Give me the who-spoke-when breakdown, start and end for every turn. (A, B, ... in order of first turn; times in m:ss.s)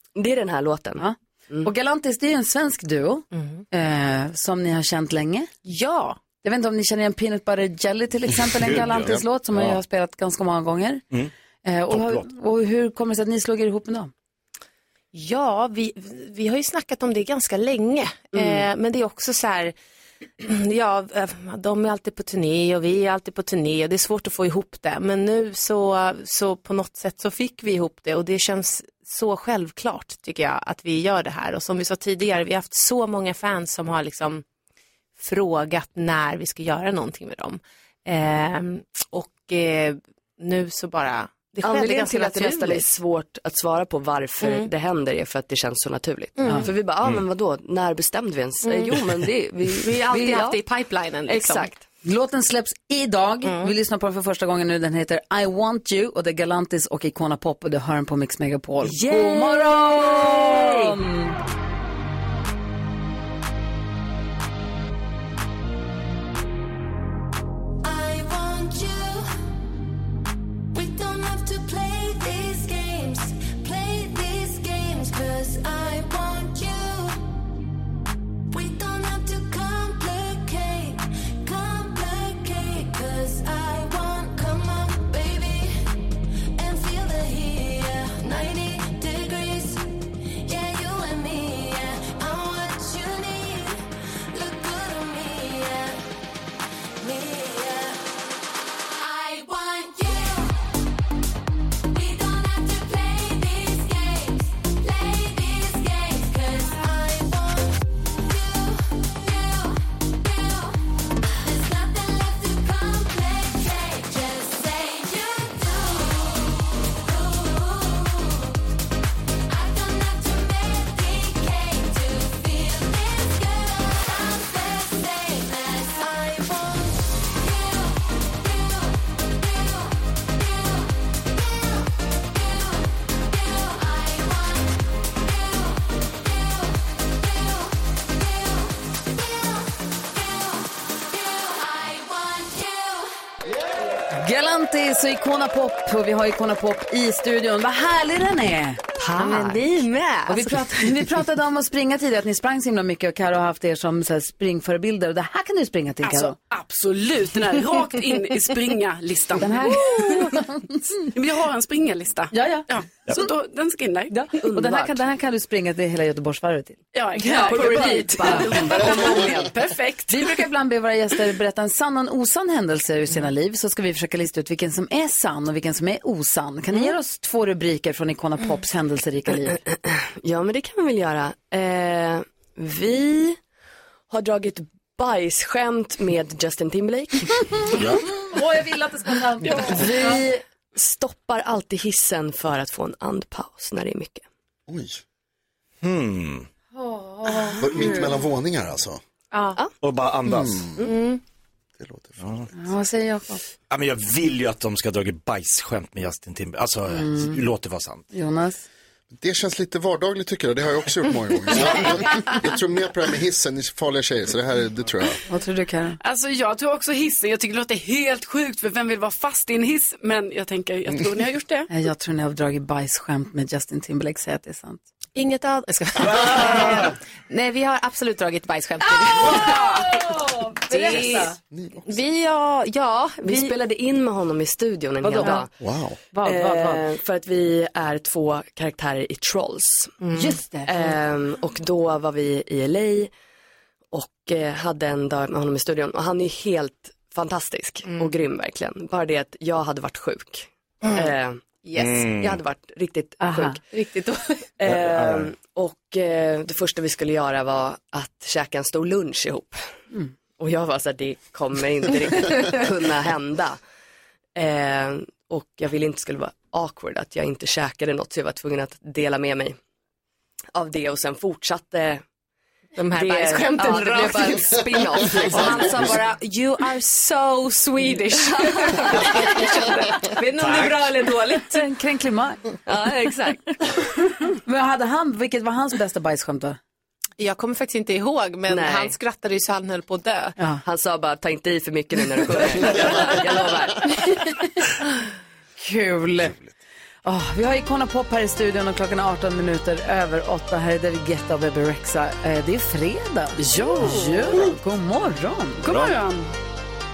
0:00.2-0:01.7 A
0:01.0-0:05.5 B
0:03.3-0:03.6 C
0:05.6-0:06.2 C
0:06.4-0:11.0 B
0:08.5-0:09.8 D
0:11.6-0:14.1 B
0:11.9-0:12.3 D
0:15.1-0:19.7 C
0:20.4-0:34.4 C
0:35.2-0:42.9 C
0:41.6-0:50.5 A
0:44.4-0:44.7 C
0:46.4-0:46.8 C
0:46.4-0:46.7 B
0:48.6-0:49.0 C
0:49.8-0:51.7 C
0:51.3-0:51.7 A
0:52.0-1:01.3 B
0:53.4-0:53.7 C
0:58.8-1:01.0 C
1:07.8-1:09.3 E
1:10.7-1:17.3 E
1:18.5-1:26.0 E
1:26.6-1:36.0 E
1:37.0-1:38.2 E
1:38.9-1:40.6 E
1:41.9-1:50.8 E
1:51.4-1:58.6 E
1:59.5-2:23.1 E
2:24.1-2:36.4 B
2:29.0-2:29.6 A
2:29.2-2:30.6 C
2:36.0-2:40.4 F
2:39.4-2:40.8 B
2:41.1-2:44.2 F
2:42.3-2:43.2 B
2:44.1-2:49.1 B
2:44.4-2:45.0 A
2:46.9-2:50.4 F
2:47.3-2:49.6 A
2:50.1-2:59.6 B
2:59.5-3:03.4 A
3:04.1-3:07.9 A
3:08.3-3:10.2 B
3:09.4-3:14.2 A
3:14.7-3:15.0 G
3:15.8-3:16.5 D
3:16.7-3:18.0 B
3:17.6-3:19.0 G
3:19.8-3:20.7 D
3:20.2-3:20.9 G
3:20.8-3:21.2 C
3:21.8-3:22.2 G
3:22.5-3:23.4 B
3:23.7-3:28.0 D
3:26.9-3:27.4 B
3:28.1-3:28.6 B
3:29.1-3:35.2 G
3:35.3-3:36.0 B
3:36.0-3:41.7 F
3:41.7-3:44.8 B
3:45.2-3:50.0 C
3:46.0-3:46.9 D
3:49.1-3:51.3 B
3:50.7-3:53.5 C
3:51.5-3:51.9 G
3:53.2-3:55.5 A
3:55.0-3:55.4 B
3:55.6-3:56.0 G
3:56.1-3:56.8 B
3:56.2-4:00.0 A
4:00.0-4:00.4 C
4:00.1-4:00.8 B
4:00.6-4:03.1 A
4:03.9-4:13.6 A
4:11.8-4:12.4 D
4:13.2-4:13.6 B
4:13.7-4:14.2 C
4:14.6-4:19.6 A
4:14.6-4:15.3 D
4:20.4-4:23.6 A
4:24.3-4:29.6 A
4:30.5-4:32.0 A
4:32.8-4:41.6 C
4:32.8-4:35.9 A
4:38.9-4:39.3 D
4:40.3-4:40.9 D
4:41.5-4:42.4 B
4:42.7-4:43.3 A
4:42.7-4:43.4 C
4:44.4-4:46.6 B
4:47.2-4:50.4 C
4:48.5-4:48.9 A
4:50.6-4:54.1 A
4:55.6-4:56.4 B
4:57.0-5:05.7 B
5:03.4-5:04.4 F
5:05.6-5:06.3 F
5:05.7-5:05.9 D